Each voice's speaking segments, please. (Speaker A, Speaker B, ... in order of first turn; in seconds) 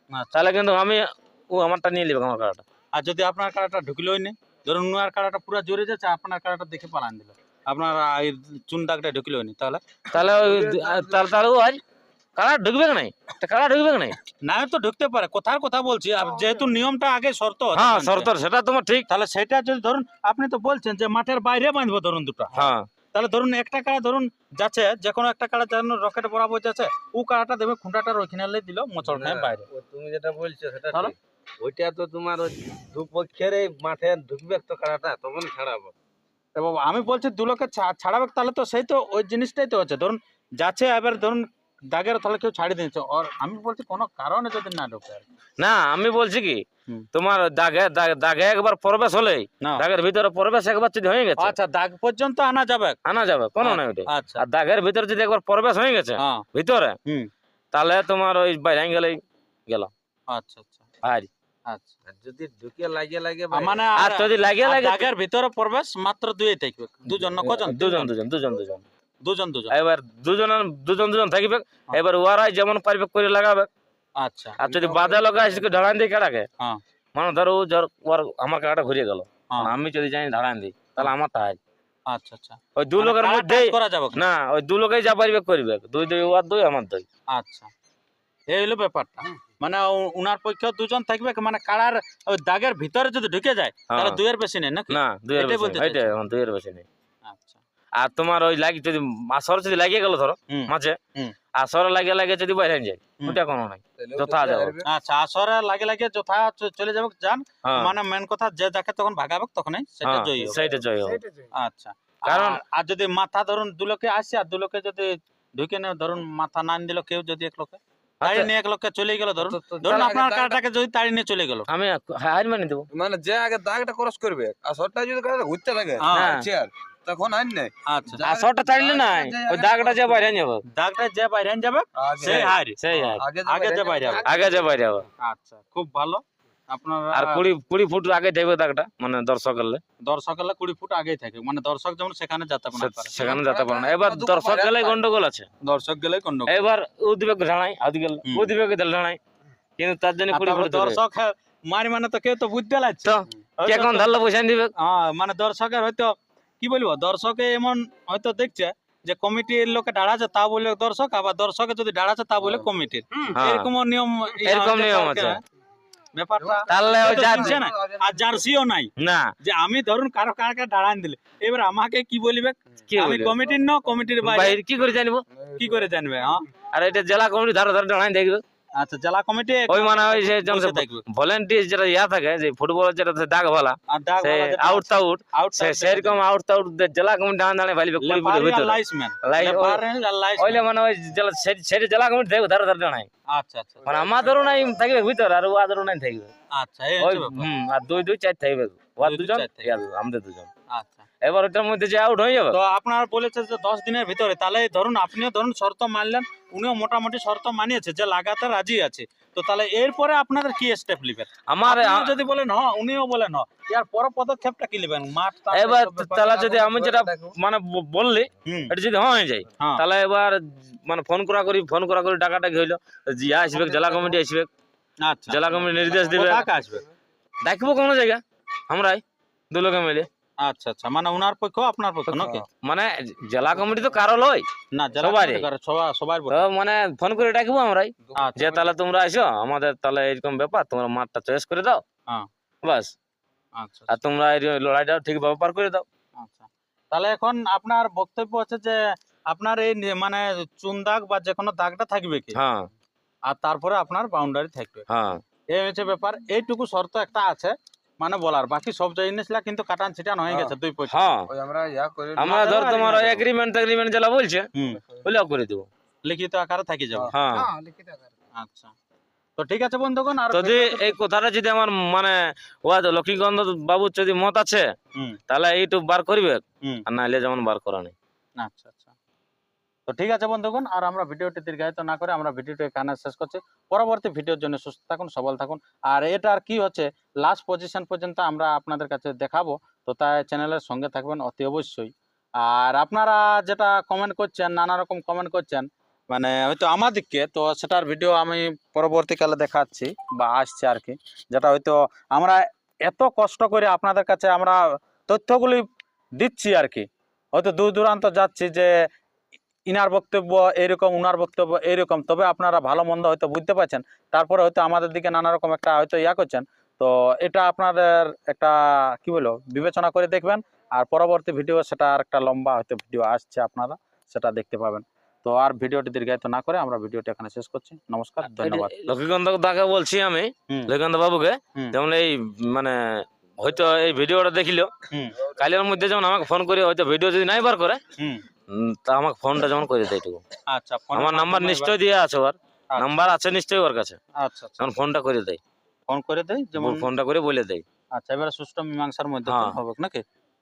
Speaker A: 0.3-2.6, 10.1-11.8, 12.4-14.2, 17.8-19.1, 22.6-22.9, 29.2-35.9, 45.6-46.6, 47.1-51.5, 53.0-57.0, 57.7-59.9, 61.0-61.3, 62.2-65.0, 67.4-68.9, 69.7-73.7, 74.6-76.5, 77.2-81.6, 82.8-87.0, 93.9-94.2, 94.9-96.9, 98.0-101.0, 101.6-104.8, 107.6-107.9, 110.0-111.2, 112.3-112.6, 118.2-118.5, 121.7-122.9, 126.1-126.5, 128.2-130.6, 132.2-133.2, 134.2-135.1, 137.1-139.8, 142.8-145.5, 146.5-149.2, 149.8-151.0, 153.1-154.7, 163.3-163.7, 164.4-165.4, 166.7-167.6, 169.0-169.3, 172.9-173.3, 174.2-175.2, 176.7-178.4, 179.7-189.8, 190.4-193.1, 193.8-196.3, 197.0-200.5, 201.2-202.6, 211.5-212.1, 215.5-224.5, 225.3-226.5, 227.4-230.1, 232.1-234.4, 235.0-235.4, 236.3-241.8, 242.6-242.9, 243.9-245.8, 252.3-252.7, 254.9-255.2, 260.9-261.3, 262.2-264.5, 265.0-265.7, 267.1-267.5, 270.3-274.6, 275.3-277.9, 328.3-334.7, 335.2-337.8, 338.5-340.2, 340.9-344.0, 344.6-345.4, 346.6-347.6, 349.3-349.6
Speaker B: 3.0-9.8, 14.4-18.3, 19.1-29.7, 36.6-45.2, 51.4-53.0, 53.6-54.4, 56.2-56.5, 57.0-57.3, 60.3-60.8, 61.7-62.0, 63.5-68.1, 69.2-69.7, 74.2-74.6, 82.1-84.2, 87.3-87.7, 88.5-96.2, 97.3-97.6, 100.5-101.4, 104.8-110.7, 111.5-121.7, 126.0-126.3, 127.9-128.2, 130.7-132.8, 133.4-134.3, 135.2-137.5, 140.0-143.1, 145.6-146.6, 148.3-148.5, 150.3-154.2, 154.8-165.4, 166.1-168.9, 169.4-174.6, 175.6-176.5, 178.8-181.1, 183.9-186.2, 188.0-190.6, 193.3-194.2, 196.5-197.5, 199.0-199.8, 200.7-201.1, 202.5-216.3, 218.4-218.7, 225.0-225.4, 225.9-226.9, 230.4-232.5, 234.7-236.4, 238.2-238.7, 243.6-244.0, 246.2-252.4, 253.3-254.9, 255.5-261.1, 262.2-263.2, 264.6-264.8, 266.1-267.1, 268.4-268.7, 269.4-271.0, 278.4-278.9, 279.9-305.7, 306.2-308.9, 309.7-328.7, 334.9-335.2, 338.0-338.2, 340.5-341.8, 344.2-344.7, 345.9-346.9, 347.9-350.0
Speaker C: 10.4-11.2, 74.6-75.6, 104.0-104.9, 111.1-111.5, 119.4-120.6, 122.9-130.3, 132.0-134.7, 143.2-145.0, 166.5-168.4, 175.4-175.8, 216.2-217.3, 223.7-224.2, 225.7-226.2, 232.1-232.4, 261.3-262.5, 266.9-268.0